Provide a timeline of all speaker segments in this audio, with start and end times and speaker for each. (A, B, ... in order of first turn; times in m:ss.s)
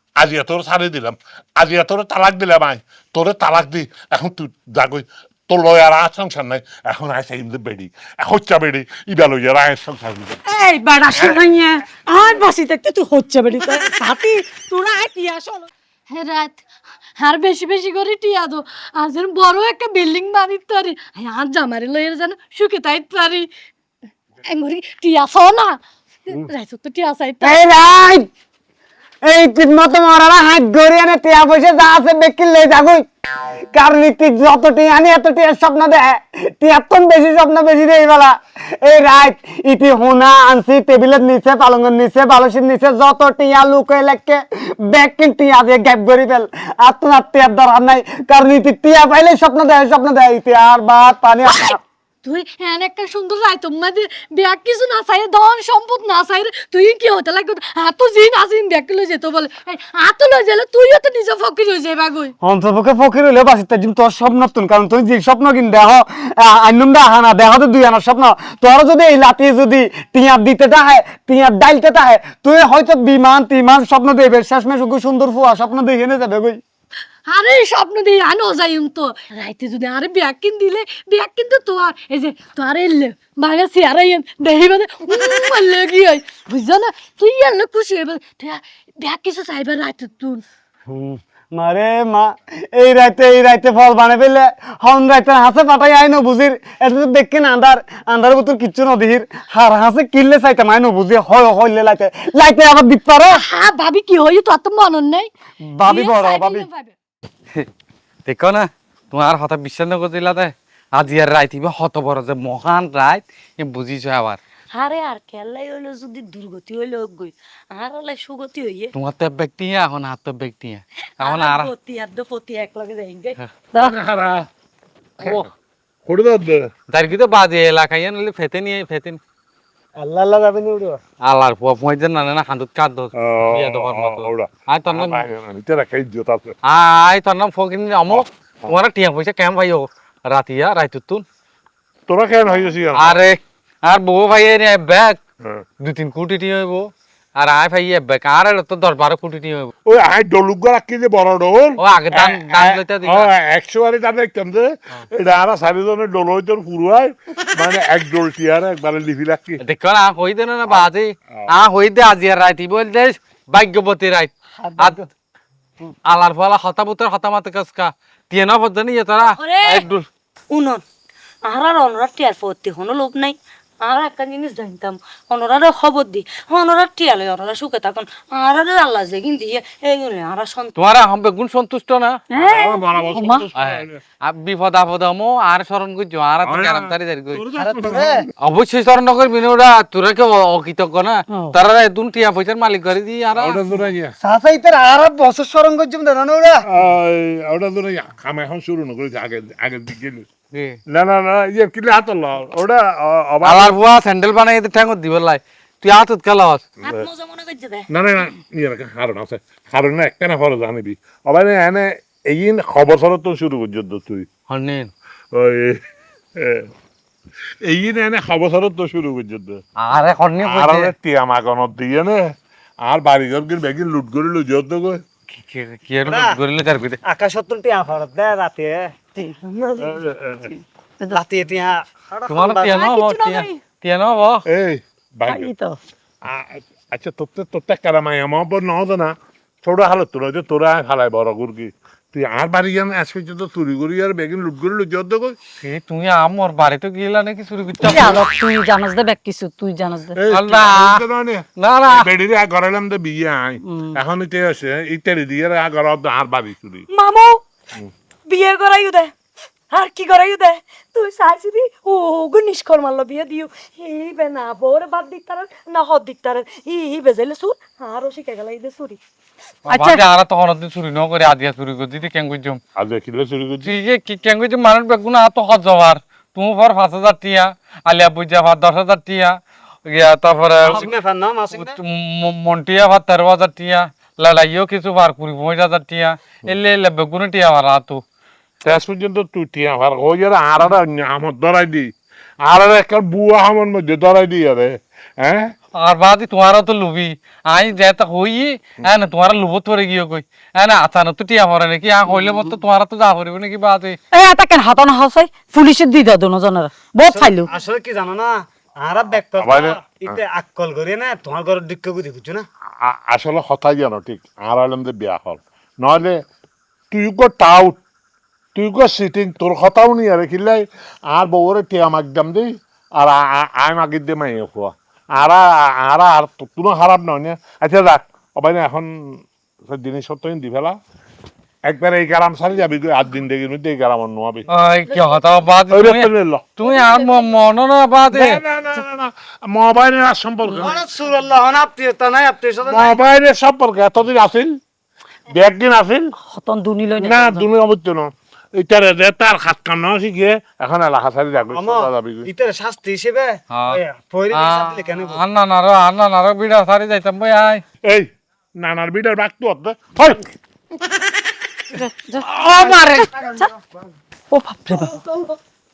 0:00.2-0:10.4 A
0:10.4-0:15.7 B
0:16.1-0:16.6 C
0:17.2-0:23.5 C
0:24.4-0:27.6 C
0:27.4-0:28.3 D
0:29.2-0:51.8 D
0:51.4-1:02.3 C
1:02.4-1:16.6 D
1:17.3-1:30.4 C
1:30.9-1:43.4 D
1:43.3-1:45.3 C
1:45.6-1:46.7 D
1:45.8-1:46.9 C
1:48.2-1:54.4 E
1:54.7-1:58.9 F
1:58.9-2:01.7 E
2:01.2-2:03.4 F
2:03.7-2:04.5 A
2:05.2-2:05.5 A
2:05.2-2:05.5 E
2:06.0-2:06.6 A
2:06.9-2:09.2 E
2:10.0-2:11.0 D
2:11.2-2:15.2 E
2:13.1-2:16.5 A
2:16.7-2:21.2 E
2:18.1-2:18.7 A
2:22.1-2:23.2 A
2:22.9-2:25.2 E
2:25.8-2:29.7 E
2:29.8-2:39.6 A
2:31.8-2:33.3 E
2:39.6-2:45.0 E
2:46.0-2:50.1 E
2:49.2-2:49.9 F
2:50.5-2:50.8 F
2:51.4-3:00.7 F
3:00.8-3:02.2 E
3:02.3-3:03.5 B
3:02.3-3:04.0 A
3:03.5-3:07.4 E
3:06.4-3:08.3 A
3:07.5-3:08.2 D
3:08.4-3:13.6 E
3:11.3-3:11.6 B
3:13.4-3:14.1 A
3:14.2-3:16.6 D
3:16.6-3:20.3 A
3:20.5-3:20.8 E
3:20.9-3:23.7 A
3:23.4-3:26.6 E
3:26.8-3:27.9 F
3:27.9-3:34.3 A
3:34.5-3:34.9 E
3:35.3-3:35.8 A
3:36.4-3:36.7 A
3:37.6-3:39.6 A
3:39.8-3:40.9 E
3:40.4-3:45.0 A
3:45.3-3:47.0 E
3:46.0-3:46.4 D
3:47.0-3:48.9 D
3:49.2-3:51.2 B
3:49.8-3:50.5 A
3:51.1-3:52.9 D
3:52.3-3:54.4 E
3:52.7-3:53.6 F
3:54.5-3:55.5 A
3:55.2-3:55.8 B
3:56.2-4:05.4 A
4:05.6-4:08.2 E
4:07.8-4:10.1 B
4:10.1-4:16.9 A
4:10.3-4:11.0 E
4:11.6-4:12.1 E
4:13.6-4:14.0 B
4:16.9-4:17.4 F
4:18.2-4:19.1 F
4:19.7-4:29.0 F
4:29.7-4:32.6 E
4:32.8-4:33.7 A
4:33.6-4:40.9 E
4:40.6-4:41.8 D
4:41.5-4:48.0 E
4:48.6-4:51.9 A
4:52.4-4:55.5 A
4:55.8-5:04.0 E
5:04.1-5:07.5 B
5:07.1-5:12.4 D
5:09.4-5:10.2 A
5:12.8-5:16.2 A
5:16.9-5:17.8 A
5:18.5-5:30.8 A
5:31.6-5:34.4 A
5:34.5-5:38.4 E
5:35.7-5:36.6 A
5:38.1-5:40.8 A
5:40.5-5:42.9 D
5:42.7-5:44.6 A
5:45.3-5:46.1 A
5:46.2-5:47.5 B
5:47.0-5:52.3 A
5:51.5-5:55.2 D
5:53.5-5:53.8 E
5:54.3-5:57.6 E
5:57.8-6:00.3 A
6:01.7-6:03.5 B
6:02.6-6:03.7 D
6:04.3-6:05.3 B